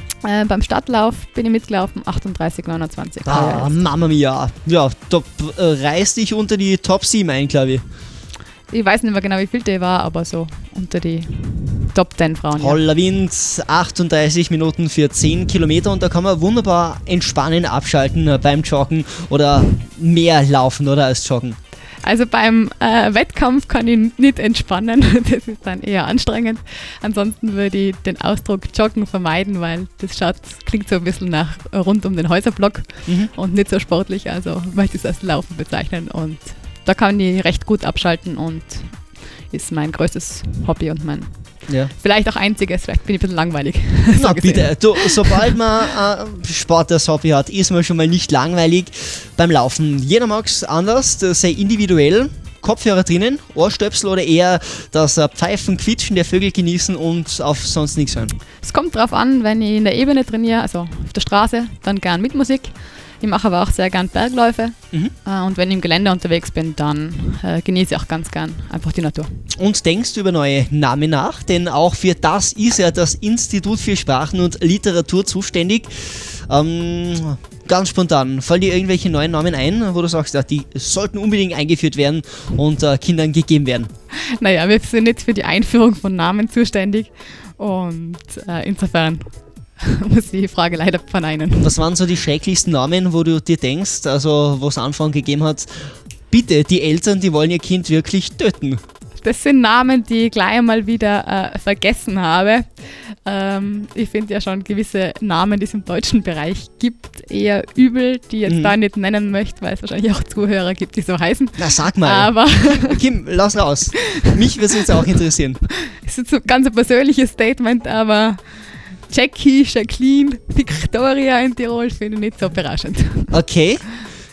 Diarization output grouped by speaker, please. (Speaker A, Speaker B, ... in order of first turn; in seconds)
Speaker A: 0.2-3.8, 8.7-12.8, 22.0-45.6, 58.6-69.5, 84.2-91.8, 99.2-113.3, 115.9-123.4
Speaker B: 3.3-7.8, 12.6-21.6, 44.2-58.4, 69.6-83.9, 91.6-98.8, 108.5-108.8, 111.6-115.7, 123.3-123.9